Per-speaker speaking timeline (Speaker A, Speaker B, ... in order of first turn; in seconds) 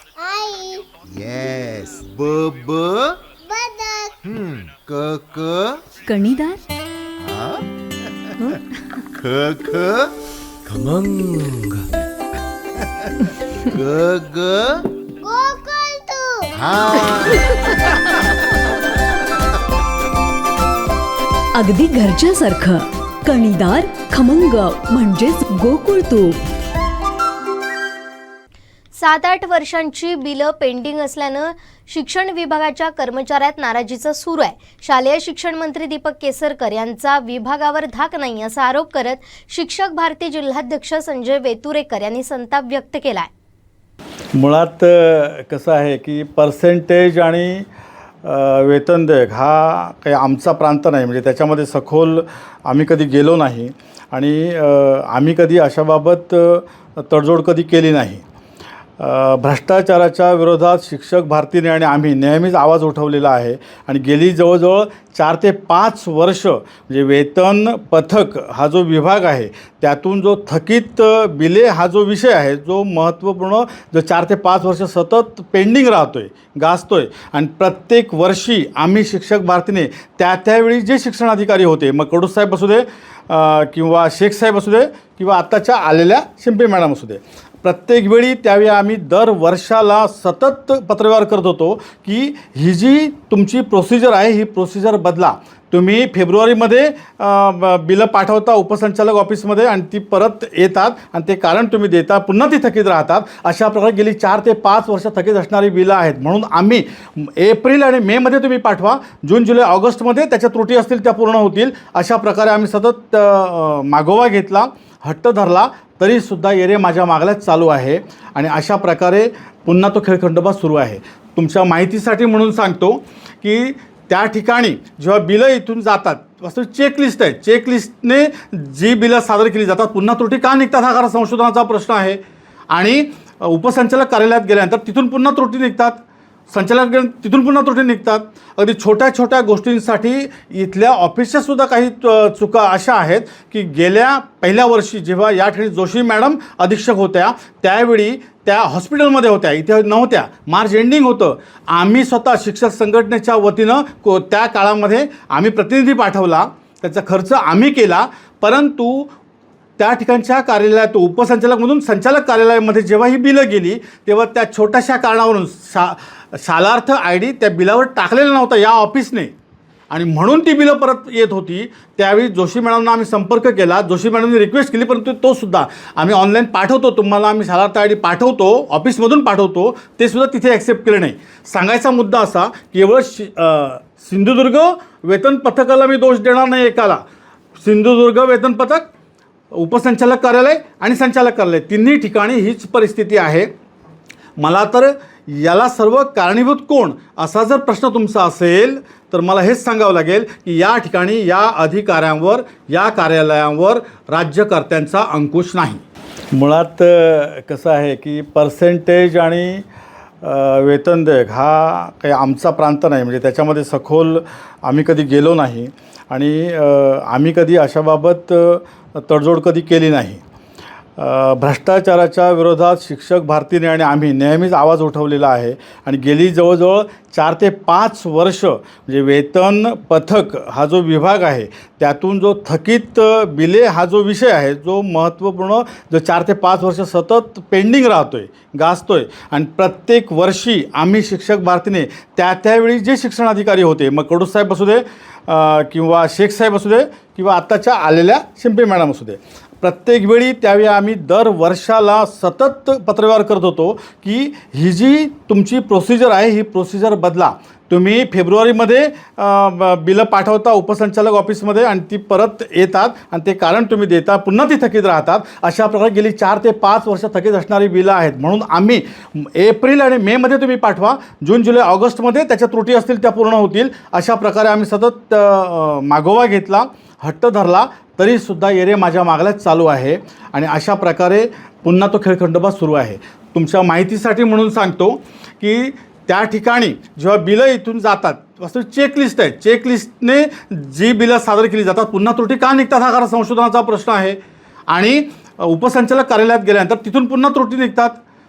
Speaker A: 0.2-0.9, 3.5-4.1, 15.2-16.5
Speaker B: 1.0-3.2, 4.2-5.8, 7.2-7.6, 9.1-10.1, 10.7-11.8, 13.7-14.9, 16.6-17.5
Speaker C: 6.0-6.6, 21.5-26.4
Speaker D: 28.9-43.3
Speaker E: 44.3-47.6, 48.2-58.2, 59.0-159.1, 159.8-169.3, 169.9-187.0, 187.6-188.9, 189.5-193.5, 194.4-205.8, 206.3-209.6, 210.2-220.2, 221.0-298.0